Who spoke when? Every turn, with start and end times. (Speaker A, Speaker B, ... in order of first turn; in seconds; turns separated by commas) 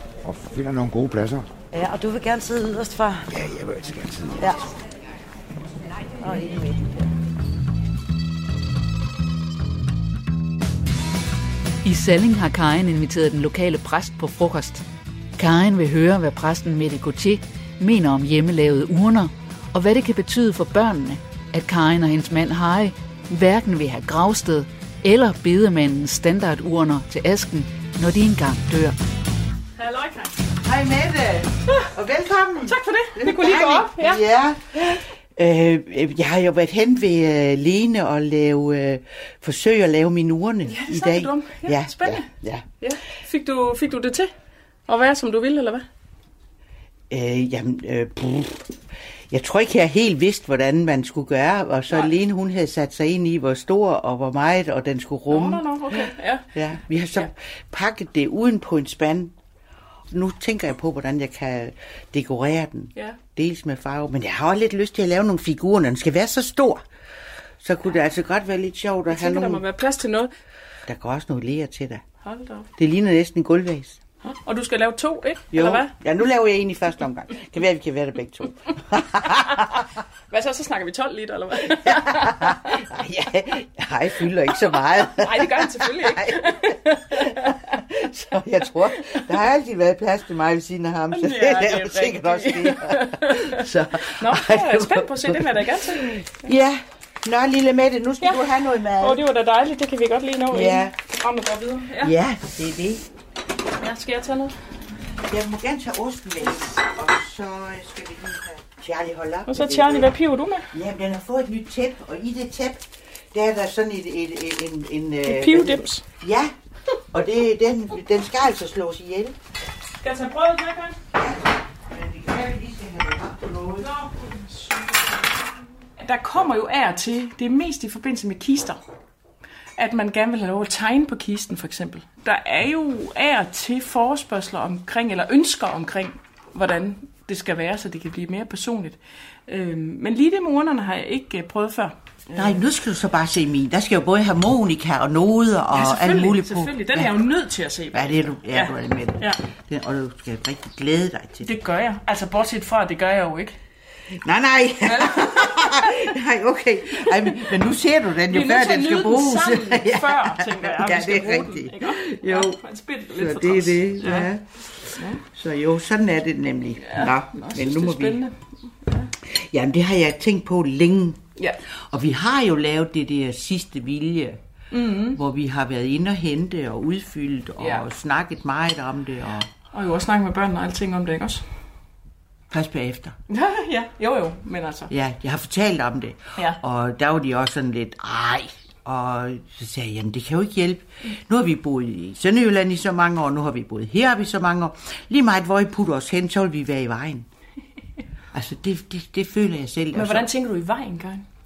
Speaker A: 0.2-1.5, Speaker B: 1.7-3.3, Speaker A: 3.3-4.6, Speaker B: 4.4-4.7, Speaker B: 6.2-6.8, Speaker C: 11.8-14.8, Speaker C: 15.4-29.0, Speaker D: 29.8-30.4, Speaker E: 30.6-42.6, Speaker D: 32.6-34.2, Speaker D: 40.7-42.3, Speaker D: 42.8-44.3, Speaker D: 44.9-45.9, Speaker E: 47.1-48.8, Speaker E: 49.3-59.3, Speaker D: 55.3-56.5, Speaker E: 60.1-66.8, Speaker E: 67.6-69.6, Speaker D: 69.1-70.3, Speaker E: 70.9-72.0, Speaker D: 72.2-72.7, Speaker E: 72.8-74.0, Speaker D: 74.2-75.9, Speaker E: 75.5-79.9, Speaker D: 80.3-82.7, Speaker E: 81.7-99.2, Speaker D: 85.1-87.6, Speaker D: 88.9-89.3, Speaker D: 91.1-96.5, Speaker D: 98.2-102.1, Speaker E: 100.5-100.9, Speaker E: 102.0-103.0, Speaker D: 103.8-104.5, Speaker E: 105.2-110.1, Speaker D: 109.5-110.7, Speaker E: 110.7-116.5, Speaker D: 115.2-116.1, Speaker E: 117.1-119.4, Speaker D: 120.0-121.0, Speaker E: 121.2-123.9, Speaker D: 123.8-125.1, Speaker D: 126.0-128.8, Speaker D: 129.8-142.6, Speaker E: 142.3-147.2, Speaker D: 145.7-149.4, Speaker E: 147.9-151.5, Speaker D: 151.4-153.5, Speaker E: 154.2-162.6, Speaker D: 154.8-156.0, Speaker D: 157.0-157.6, Speaker D: 158.3-164.3, Speaker E: 163.1-168.2, Speaker D: 164.9-165.2, Speaker D: 166.8-169.1, Speaker E: 169.3-171.2, Speaker E: 171.9-174.4, Speaker D: 174.7-175.2, Speaker E: 175.1-179.5, Speaker D: 177.6-177.9, Speaker D: 179.7-181.5, Speaker E: 182.5-183.2, Speaker D: 183.3-184.9, Speaker E: 184.9-197.3, Speaker E: 198.3-200.3, Speaker D: 199.9-201.2